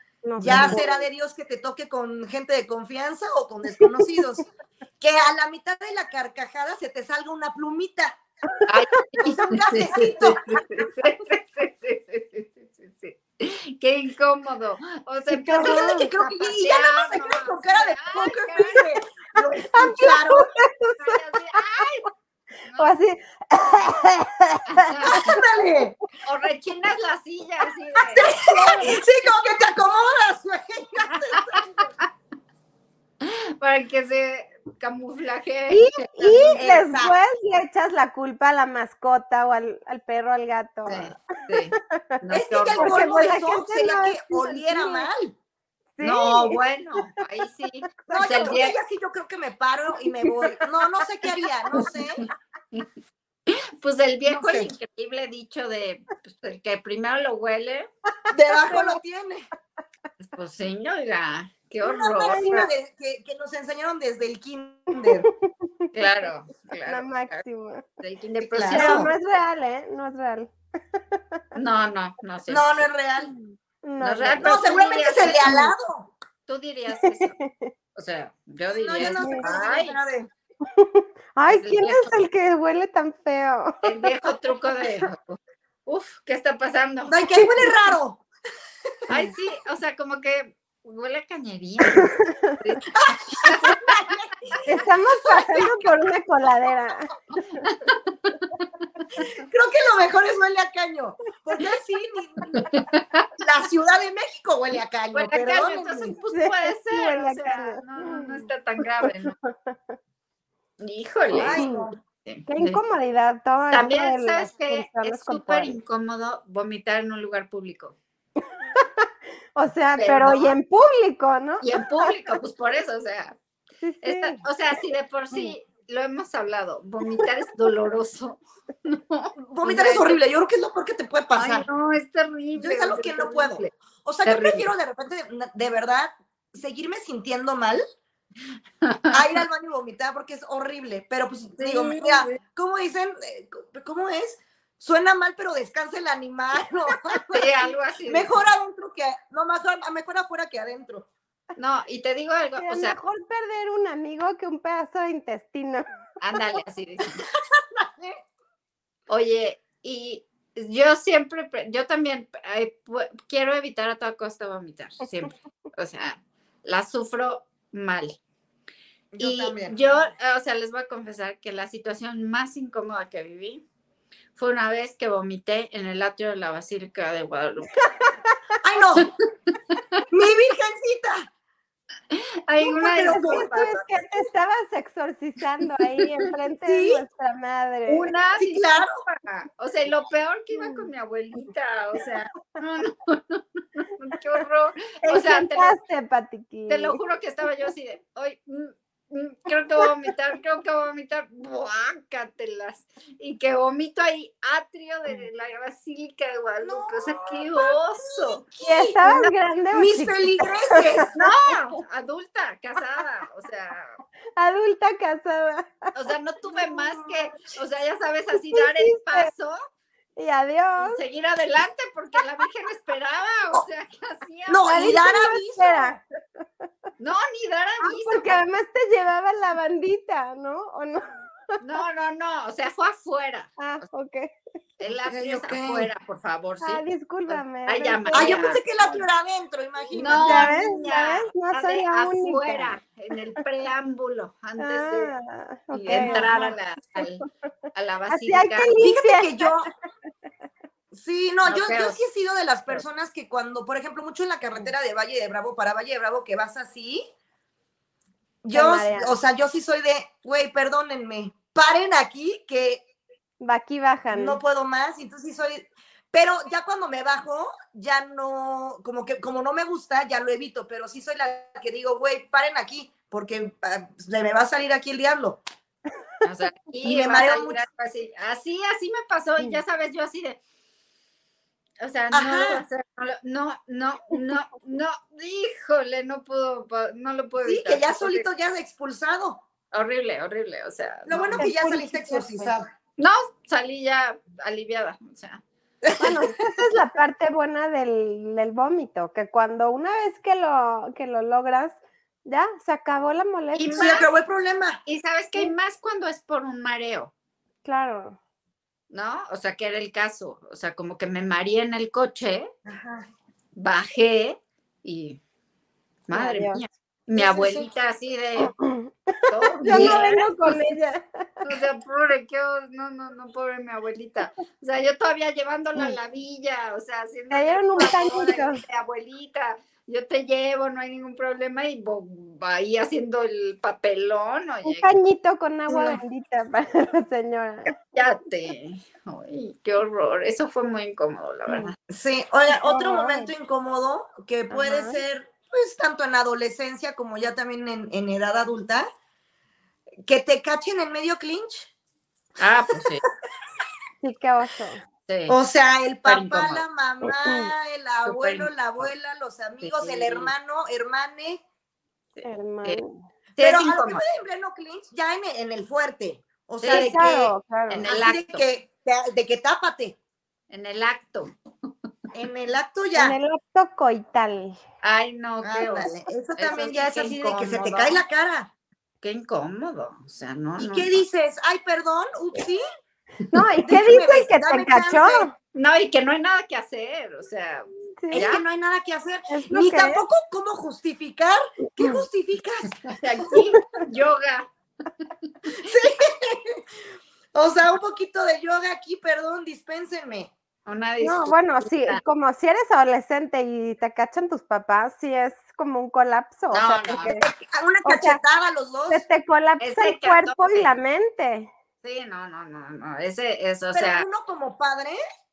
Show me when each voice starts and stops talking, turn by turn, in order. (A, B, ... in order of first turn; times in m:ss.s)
0:00.2-0:01.0 A
0:00.4-0:04.4 B
0:00.4-0:00.8 C
0:03.7-0:04.4 A
0:05.0-0:08.2 B
0:08.5-0:09.3 A
0:08.7-0:18.9 C
0:09.2-0:10.4 B
0:15.3-0:16.1 A
0:15.5-0:20.5 B
0:19.6-0:21.8 A
0:21.0-0:22.1 C
0:22.8-0:25.4 A
0:24.7-0:25.3 C
0:25.0-0:26.0 B
0:26.2-0:28.9 C
0:28.1-0:31.9 B
0:28.3-0:29.0 A
0:31.2-0:31.6 C
0:33.2-0:36.1 C
0:35.7-0:42.0 A
0:36.2-0:37.2 B
0:40.9-0:43.0 C
0:42.3-0:45.4 B
0:42.8-0:45.1 A
0:46.0-0:46.6 A
0:46.0-0:46.6 B
0:46.5-0:48.8 C
0:48.1-0:48.5 A
0:48.1-0:52.2 B
0:50.2-0:50.5 A
0:53.5-0:57.9 C
0:54.2-0:54.7 B
0:58.3-0:59.0 A
0:58.3-0:59.5 B
1:00.2-1:02.7 C
1:01.8-1:05.3 B
1:02.2-1:02.7 A
1:05.0-1:05.9 A
1:05.9-1:07.4 C
1:06.9-1:07.8 A
1:08.0-1:09.1 C
1:08.4-1:09.1 B
1:08.7-1:11.4 A
1:11.6-1:12.8 C
1:12.5-1:13.3 B
1:13.2-1:14.6 A
1:14.0-1:15.7 C
1:14.4-1:16.1 B
1:15.4-1:15.7 A
1:16.5-1:17.4 C
1:16.9-1:17.7 A
1:18.0-1:20.0 C
1:18.7-1:20.3 B
1:19.1-1:19.4 A
1:20.7-1:24.3 A
1:21.5-1:22.1 C
1:23.8-1:27.3 C
1:27.1-1:28.2 B
1:27.3-1:27.7 A
1:29.1-1:33.9 C
1:31.9-1:32.6 A
1:32.9-1:34.6 B
1:34.6-1:37.7 A
1:35.2-1:35.9 B
1:37.6-1:38.5 C
1:39.2-1:42.6 B
1:42.5-1:43.3 C
1:43.4-1:46.2 B
1:45.1-1:49.4 C
1:46.3-1:48.4 A
1:49.0-1:49.8 A
1:50.8-1:51.7 C
1:51.3-1:52.0 B
1:51.5-1:51.9 A
1:52.2-1:52.8 C
1:52.5-1:55.8 A
1:53.7-1:58.0 C
1:58.7-2:02.1 A
2:00.0-2:00.6 C
2:01.6-2:03.4 C
2:03.8-2:04.4 A
2:04.0-2:10.2 C
2:09.5-2:11.7 B
2:11.4-2:13.7 C
2:12.6-2:17.8 B
2:14.2-2:14.7 C
2:18.8-2:19.2 C
2:19.1-2:31.1 B
2:21.6-2:22.4 C
2:27.3-2:28.4 C
2:31.6-2:33.0 C
2:32.6-2:35.8 A
2:36.2-2:37.2 C
2:37.0-2:38.2 B
2:39.1-2:48.2 C
2:49.1-2:49.8 B
2:49.2-2:53.6 C
2:54.4-2:57.9 C
2:57.8-2:58.3 A
2:58.6-2:59.1 B
2:59.7-3:00.0 C
3:00.1-3:01.3 B
3:02.1-3:03.8 C
3:02.6-3:03.7 B
3:02.9-3:08.1 A
3:06.7-3:07.0 B
3:07.9-3:15.8 C
3:08.4-3:09.0 B
3:10.5-3:10.9 A
3:15.1-3:17.0 A
3:16.7-3:28.4 C
3:26.6-3:29.0 B
3:28.6-3:31.6 A
3:29.7-3:31.1 B
3:31.1-3:34.0 C
3:34.4-3:35.9 A
3:36.0-3:39.6 C
3:36.5-3:37.1 A
3:38.5-3:39.3 A
3:40.2-3:41.0 A
3:40.8-3:45.0 C
3:44.5-3:46.0 B
3:44.6-3:46.0 A
3:47.0-3:48.4 C
3:47.8-3:51.2 A
3:51.6-3:53.5 C
3:53.6-3:54.3 A
3:54.8-3:58.6 C
3:55.1-3:55.9 B
3:56.6-3:59.0 A
3:58.1-4:00.6 B
4:00.0-4:05.1 C
4:00.1-4:03.2 A
4:04.6-4:07.2 A
4:05.7-4:08.7 C
4:05.9-4:06.3 B
4:08.1-4:09.5 A
4:08.8-4:09.7 B
4:10.9-4:17.0 B
4:11.4-4:12.0 C
4:18.4-4:22.8 B
4:18.5-4:19.2 A
4:23.4-4:24.4 A
4:24.1-4:35.4 B
4:36.2-4:40.4 C
4:36.8-4:37.6 B
4:41.8-4:48.2 C
4:42.1-4:42.6 B
4:47.4-4:49.4 B
4:49.7-4:51.5 C
4:51.1-4:52.7 B
4:51.4-4:52.5 A
4:53.0-4:55.4 C
4:55.8-4:56.3 B
4:56.0-5:04.0 A
5:03.6-5:04.1 C
5:03.7-5:04.8 B
5:04.9-5:07.1 C
5:07.6-5:08.2 A
5:08.9-5:12.5 C
5:12.7-5:13.1 B
5:13.6-5:15.2 C
5:16.1-5:18.5 C
5:16.1-5:16.6 A
5:17.2-5:17.7 B
5:18.4-5:21.2 A
5:19.3-5:20.6 C
5:19.7-5:20.2 B
5:21.4-5:34.9 C
5:27.3-5:28.6 A
5:34.6-5:37.7 A
5:35.7-5:36.0 C
5:37.9-5:41.8 C
5:41.5-5:41.7 A
5:41.9-5:48.9 B
5:42.5-5:43.3 A
5:44.5-5:45.0 A
5:50.1-5:51.7 B
5:52.4-5:53.0 C
5:54.0-5:54.8 A
5:55.1-5:55.4 C
5:55.3-6:01.4 B
5:56.1-5:56.6 C
5:57.0-5:57.5 A
5:58.0-5:58.9 C
5:59.6-6:00.3 C
6:02.1-6:02.8 C
6:02.2-6:03.0 A
6:03.4-6:04.0 C
6:03.4-6:07.1 B
6:06.6-6:08.4 C
6:06.7-6:07.9 A
6:07.9-6:10.0 B
6:10.5-6:11.3 C
6:12.1-6:13.2 B
6:12.9-6:14.6 A
6:14.8-6:18.0 C
6:15.4-6:18.5 B
6:19.0-6:20.9 C
6:20.6-6:22.6 B
6:23.3-6:25.3 A
6:23.6-6:25.3 B
6:25.6-6:28.4 C
6:28.0-6:28.3 A
6:28.1-6:33.4 B
6:29.3-6:30.0 A
6:31.8-6:32.0 A
6:32.9-6:34.5 C
6:35.0-6:35.7 C
6:35.6-6:36.6 B
6:37.3-6:40.3 B
6:40.6-6:42.0 C
6:41.0-6:47.2 A
6:46.5-6:47.2 C
6:47.2-6:49.0 B
6:47.8-6:48.2 A
6:48.9-6:51.5 A
6:49.6-6:50.7 C
6:51.8-6:54.1 C
6:53.7-6:55.0 B